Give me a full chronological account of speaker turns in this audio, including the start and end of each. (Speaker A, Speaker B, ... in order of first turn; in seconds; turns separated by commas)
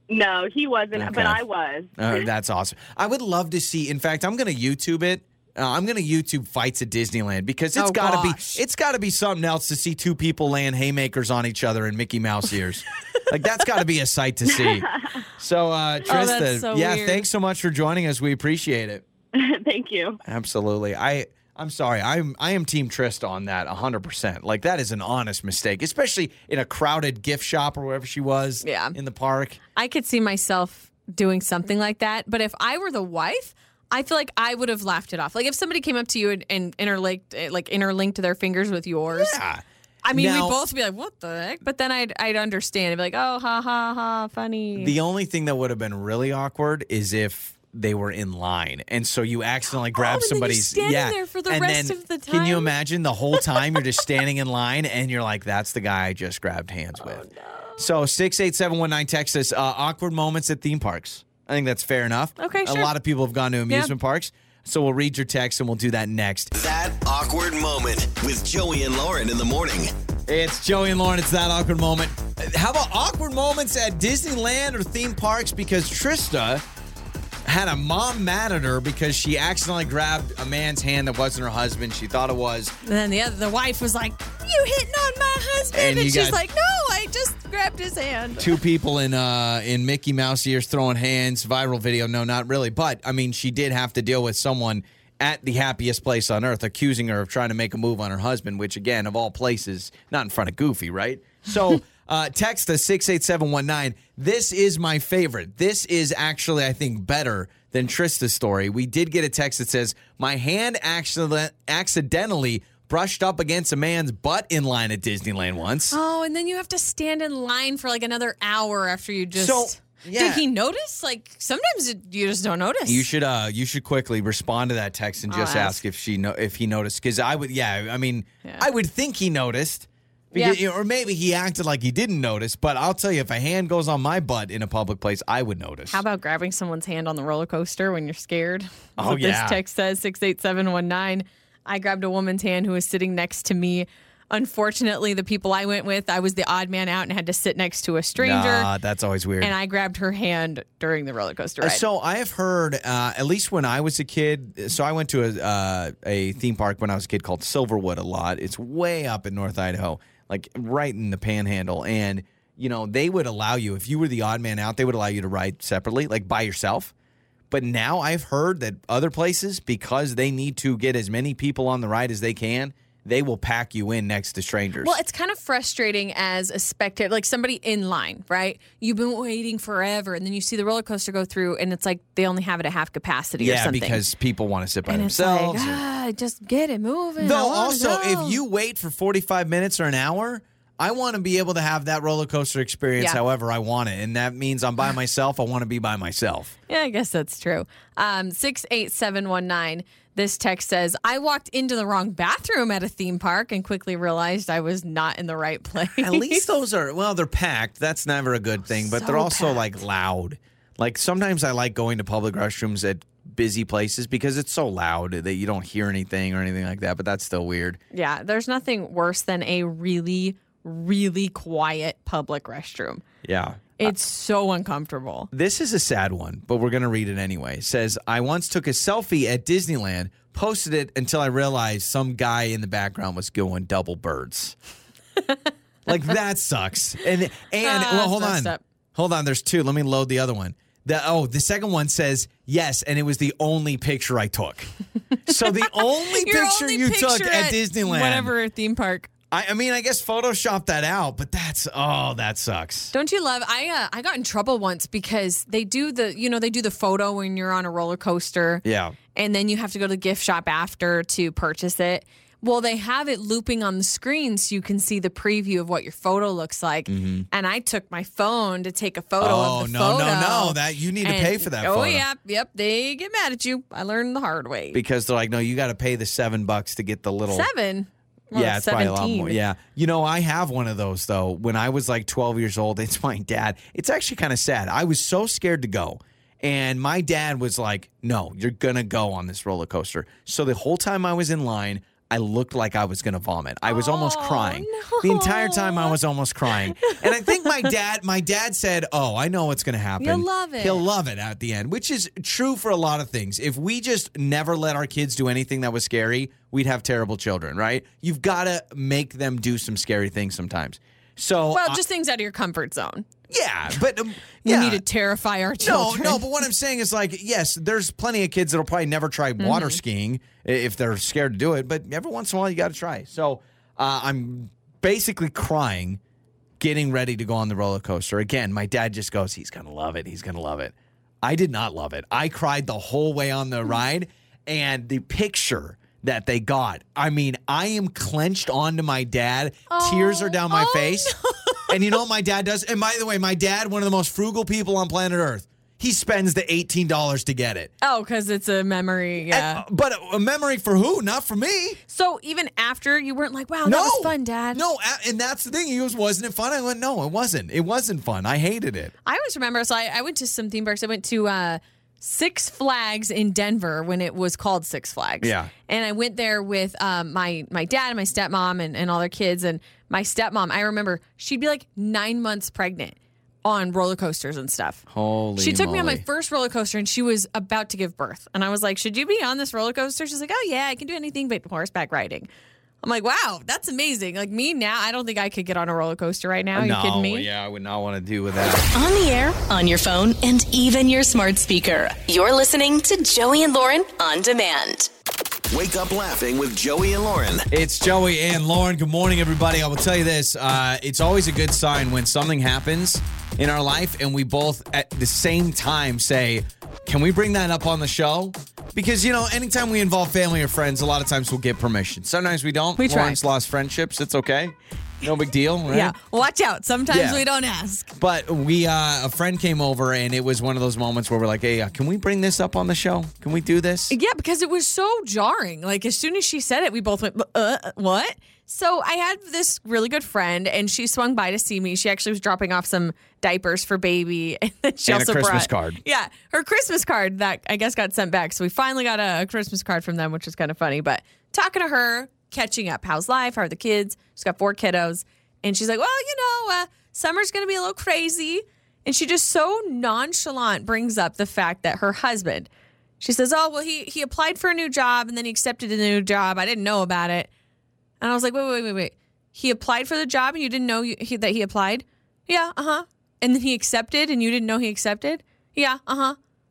Speaker A: 0.1-2.2, Speaker B: 0.9-1.4, Speaker B: 2.0-19.0, Speaker C: 7.8-8.6, Speaker A: 14.5-15.0, Speaker C: 16.1-17.2, Speaker A: 19.3-20.2, Speaker B: 20.2-29.6, Speaker C: 28.6-28.9, Speaker C: 29.7-39.4, Speaker B: 39.1-40.6, Speaker C: 40.0-44.9, Speaker B: 44.8-66.5, Speaker C: 49.9-52.7, Speaker C: 53.3-53.8, Speaker C: 57.0-57.8, Speaker C: 62.4-62.9, Speaker D: 66.5-69.9, Speaker B: 70.3-76.6, Speaker B: 77.4-82.7, Speaker C: 82.8-88.5, Speaker B: 85.7-86.4, Speaker B: 88.4-116.0, Speaker C: 115.9-123.1, Speaker B: 119.3-120.5, Speaker B: 122.8-136.0, Speaker C: 125.3-125.8, Speaker C: 130.3-130.6, Speaker C: 135.9-148.7, Speaker B: 139.0-139.6, Speaker B: 148.2-149.5, Speaker C: 149.4-151.8, Speaker B: 151.6-166.9, Speaker B: 167.5-174.9, Speaker C: 174.8-184.0, Speaker B: 183.4-185.8, Speaker C: 184.9-188.4, Speaker B: 187.2-196.5, Speaker C: 196.7-206.4, Speaker B: 205.9-217.8, Speaker C: 208.7-209.7, Speaker C: 217.9-223.0, Speaker B: 223.2-223.9, Speaker C: 223.8-225.3, Speaker B: 225.3-234.5, Speaker B: 235.8-244.7, Speaker C: 237.6-238.6, Speaker B: 245.2-248.3, Speaker C: 245.3-249.1, Speaker B: 249.3-252.9, Speaker C: 252.9-258.6, Speaker B: 258.6-258.9, Speaker C: 259.1-274.8, Speaker B: 266.9-267.3, Speaker B: 269.2-272.1, Speaker B: 274.7-277.5, Speaker C: 277.3-279.4, Speaker B: 278.3-311.8, Speaker C: 293.6-296.0, Speaker C: 296.8-297.7, Speaker C: 300.0-300.8, Speaker C: 311.5-313.0, Speaker B: 313.3-314.8, Speaker C: 314.4-316.2, Speaker B: 315.6-326.0, Speaker C: 319.4-319.8, Speaker B: 326.6-341.1, Speaker C: 339.7-342.0, Speaker B: 341.7-347.7, Speaker C: 347.8-349.6, Speaker B: 349.3-351.8, Speaker C: 351.9-354.6, Speaker B: 353.6-358.9, Speaker C: 359.0-374.8, Speaker B: 365.2-365.5, Speaker B: 374.9-376.0, Speaker C: 375.4-382.3, Speaker C: 382.8-387.3, Speaker B: 386.5-388.7, Speaker E: 388.7-394.9, Speaker D: 395.5-397.4, Speaker B: 397.5-415.9, Speaker C: 412.8-413.2, Speaker C: 415.7-417.9, Speaker B: 416.9-417.2, Speaker B: 417.9-423.9, Speaker C: 423.9-452.5, Speaker B: 434.9-435.8, Speaker C: 453.0-457.3, Speaker C: 458.0-466.2